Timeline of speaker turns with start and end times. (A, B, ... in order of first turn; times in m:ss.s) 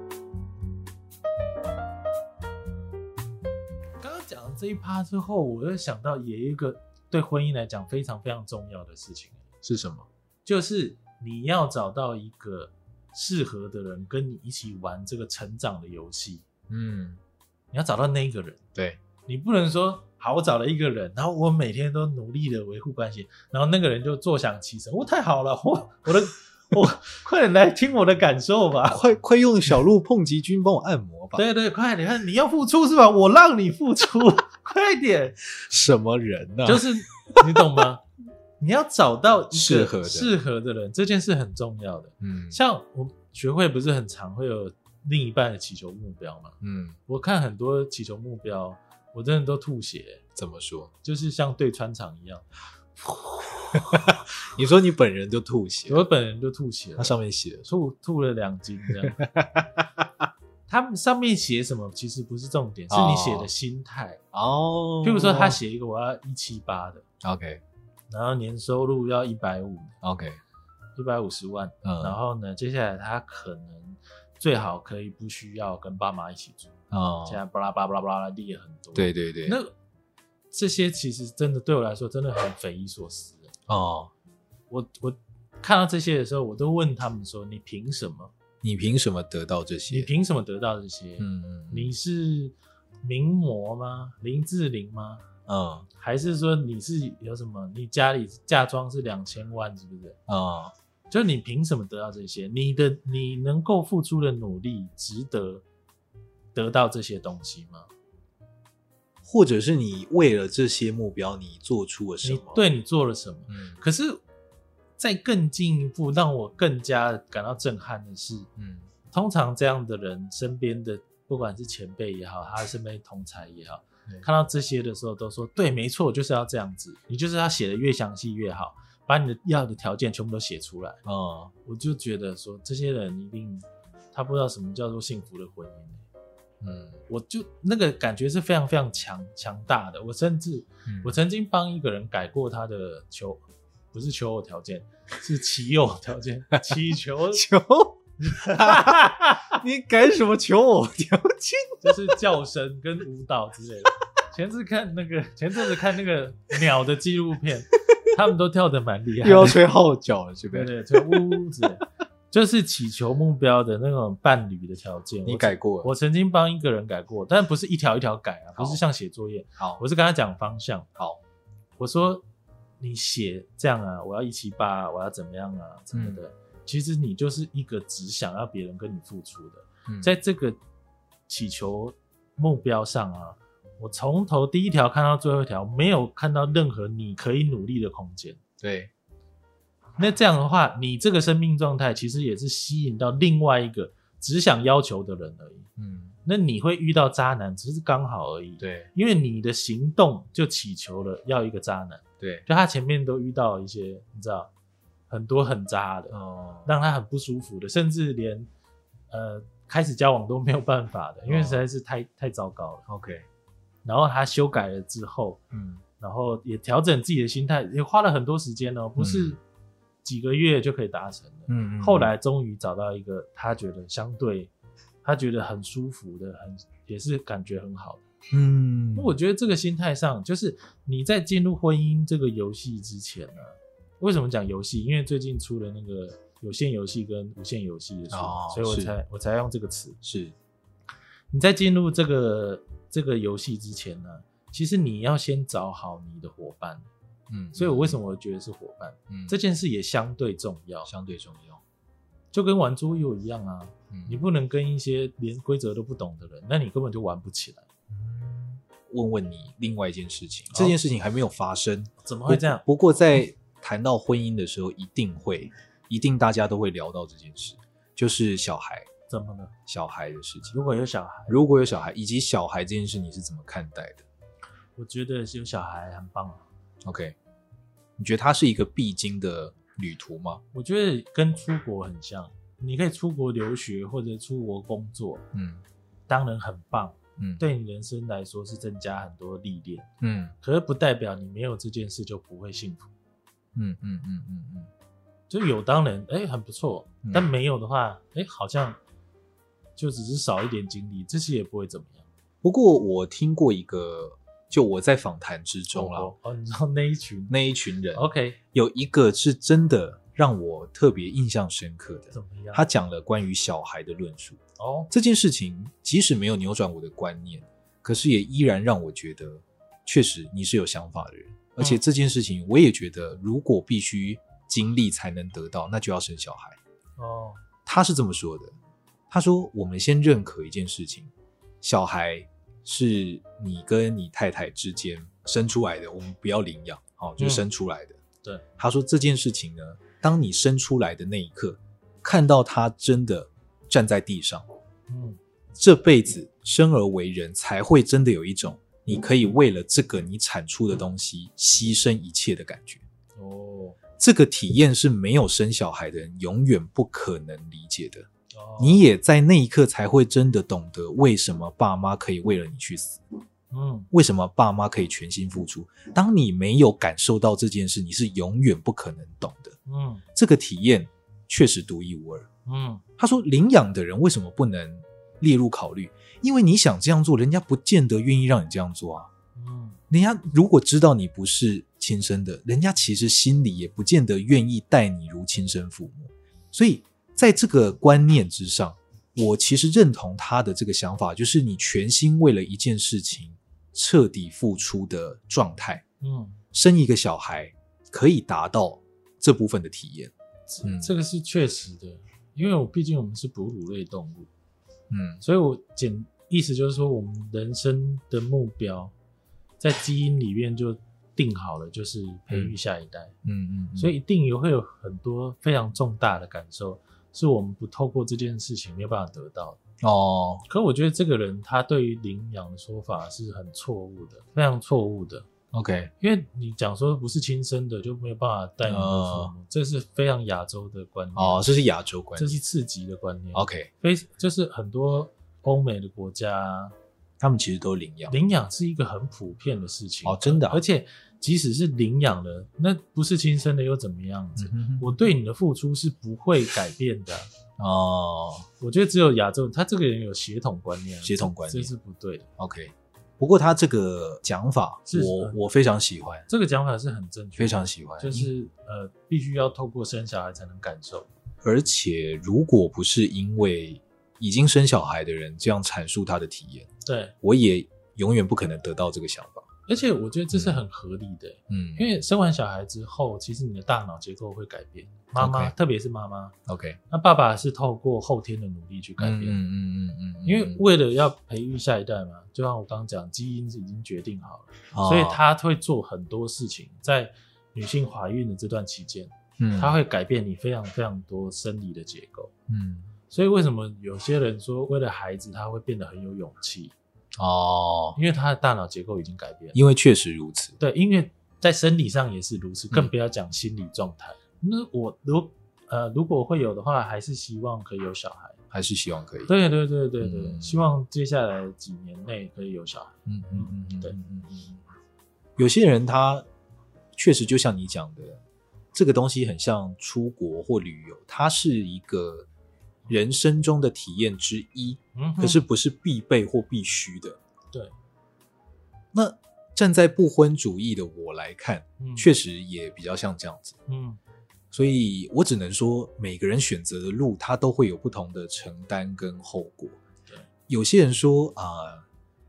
0:04.0-0:09.4 A
0:09.6-0:10.1 B
0:10.4-0:16.5 A
0:16.7-0:17.2 B
0:17.7-0:18.6 A
0:18.7-0:19.0 B
0:19.3-0:29.0 A
0:28.9-0:31.4 B
0:31.3-0:35.4 A
0:35.5-0:37.5 B
0:36.6-0:38.0 A
0:38.6-0:50.2 A
0:39.5-0:40.3 B
0:42.2-0:42.6 B
0:46.6-0:47.0 B
0:50.4-0:50.9 B
0:51.0-0:52.5 A
0:53.0-0:56.1 B
0:55.8-0:59.2 A
0:57.0-0:57.7 B
0:59.2-1:00.1 B
1:00.7-1:04.2 A
1:02.9-1:03.5 B
1:04.3-1:05.6 B
1:05.0-1:07.0 A
1:07.2-1:07.6 B
1:08.1-1:10.0 A
1:10.0-1:10.4 B
1:11.0-1:16.7 A
1:11.8-1:12.2 B
1:16.9-1:17.4 B
1:17.2-1:19.7 A
1:18.9-1:19.6 B
1:20.5-1:23.5 A
1:23.7-1:24.1 B
1:24.7-1:28.3 A
1:28.6-1:30.1 B
1:29.9-1:35.2 A
1:31.2-1:31.9 B
1:35.5-1:35.9 B
1:36.0-1:40.2 A
1:40.3-1:40.7 B
1:41.1-1:45.6 A
1:46.5-1:47.9 A
1:49.2-1:52.7 B
1:52.2-1:54.2 A
1:53.5-1:53.8 B
1:55.0-1:58.5 A
1:58.6-1:58.9 B
1:59.1-2:11.0 A
2:11.0-2:11.5 B
2:11.6-2:16.0 A
2:16.6-2:17.0 B
2:17.1-2:27.5 A
2:20.9-2:21.2 B
2:27.3-2:32.1 B
2:28.2-2:29.5 A
2:31.8-2:39.6 A
2:39.2-2:41.4 B
2:40.5-2:50.9 A
2:45.2-2:45.9 B
2:48.6-2:48.8 B
2:51.8-2:52.2 A
2:52.8-3:00.6 A
2:55.9-2:56.2 B
2:59.9-3:00.1 B
3:01.3-3:08.4 A
3:08.6-3:08.9 B
3:10.0-3:15.7 A
3:15.8-3:16.2 B
3:16.2-3:24.5 A
3:18.6-3:18.9 B
3:22.2-3:22.4 B
3:25.1-3:28.5 A
3:26.1-3:26.7 B
3:29.1-3:32.8 A
3:31.2-3:31.6 B
3:32.9-3:33.2 B
3:33.8-3:35.4 A
3:35.5-3:35.8 B
3:36.0-3:39.4 A
3:39.0-3:39.4 B
3:40.0-3:44.5 A
3:41.5-3:42.1 B
3:45.0-3:48.0 A
3:48.3-3:49.1 B
3:48.9-4:00.0 A
3:58.1-3:59.0 B
4:00.0-4:00.3 B
4:01.3-4:06.9 A
4:07.3-4:08.0 B
4:07.5-4:10.9 A
4:09.1-4:09.4 B
4:10.8-4:11.6 B
4:12.3-4:17.6 A
4:13.9-4:14.2 B
4:17.9-4:28.9 B
4:20.5-4:20.8 A
4:22.0-4:22.6 A
4:29.1-4:29.5 A
4:29.7-4:30.6 B
4:30.5-4:31.4 A
4:31.3-4:34.0 B
4:34.8-4:36.4 A
4:36.8-4:37.2 B
4:38.0-4:40.4 B
4:40.5-4:45.2 A
4:45.3-4:45.6 B
4:46.1-4:49.9 A
4:47.2-4:47.4 B
4:50.0-4:50.3 B
4:50.4-4:52.9 A
4:53.6-4:54.7 B
4:55.3-4:58.8 A
4:59.8-5:02.0 A
5:02.4-5:06.1 B
5:05.7-5:07.3 A
5:07.3-5:14.4 B
5:07.9-5:08.4 A
5:12.1-5:12.7 A
5:14.6-5:14.9 A
5:14.9-5:26.6 B
5:27.0-5:27.4 A
5:27.6-5:28.6 B
5:29.1-5:38.0 B
5:37.2-5:37.4 A
5:38.6-5:44.4 B
5:44.9-5:45.2 A
5:45.6-5:52.8 B
5:53.2-5:53.8 A
5:54.0-5:58.1 B
5:58.3-5:58.9 A
5:58.6-6:03.0 B
6:03.5-6:03.9 A
6:03.9-6:09.6 B
6:09.6-6:10.0 A
6:10.2-6:12.3 B
6:12.4-6:12.8 A
6:13.0-6:19.1 B
6:19.4-6:19.8 A
6:19.9-6:35.8 B
6:36.0-6:36.4 A
6:36.5-6:40.1 B
6:40.5-6:44.3 A
6:40.6-6:40.9 B
6:44.9-6:45.2 B
6:45.2-6:48.9 A
6:49.6-6:53.1 A
6:53.2-6:53.9 B
6:53.8-6:59.6 A
6:59.8-7:00.4 B
7:00.5-7:05.3 A
7:05.5-7:05.9 B
7:06.0-7:11.6 A
7:08.6-7:09.3 B
7:11.2-7:12.4 B
7:12.2-7:16.7 A
7:13.3-7:13.7 B
7:17.2-7:18.2 B
7:18.1-7:27.3 A
7:20.0-7:20.6 B
7:24.4-7:24.9 B
7:27.6-7:28.5 B
7:28.6-7:32.3 A
7:31.0-7:31.7 B
7:32.4-7:36.3 B
7:34.9-7:35.4 A
7:36.3-7:41.1 A
7:37.4-7:38.3 B
7:41.4-7:46.7 B
7:46.8-7:47.2 A
7:47.2-7:49.5 B
7:49.7-7:56.3 A
7:50.3-7:50.6 B
7:51.5-7:51.8 B
7:55.2-7:55.5 B
7:56.5-7:56.8 B
7:56.9-7:59.4 A
7:59.0-8:00.6 B
8:00.2-8:12.3 A
8:04.7-8:05.2 B
8:09.4-8:09.8 B
8:12.5-8:12.9 B
8:13.1-8:16.7 A
8:17.2-8:18.0 B
8:17.9-8:19.6 A
8:19.5-8:20.6 B
8:20.6-8:28.4 A
8:28.5-8:29.3 B
8:29.3-8:34.0 A
8:30.0-8:30.6 B
8:33.1-8:34.6 B
8:35.4-8:36.2 B
8:36.9-8:38.2 B
8:38.7-8:42.3 B
8:42.9-8:47.2 B
8:44.9-8:45.4 A
8:48.9-8:53.6 B
8:51.8-8:52.1 A
8:53.7-8:54.0 A
8:54.5-8:59.8 B
9:00.5-9:01.8 B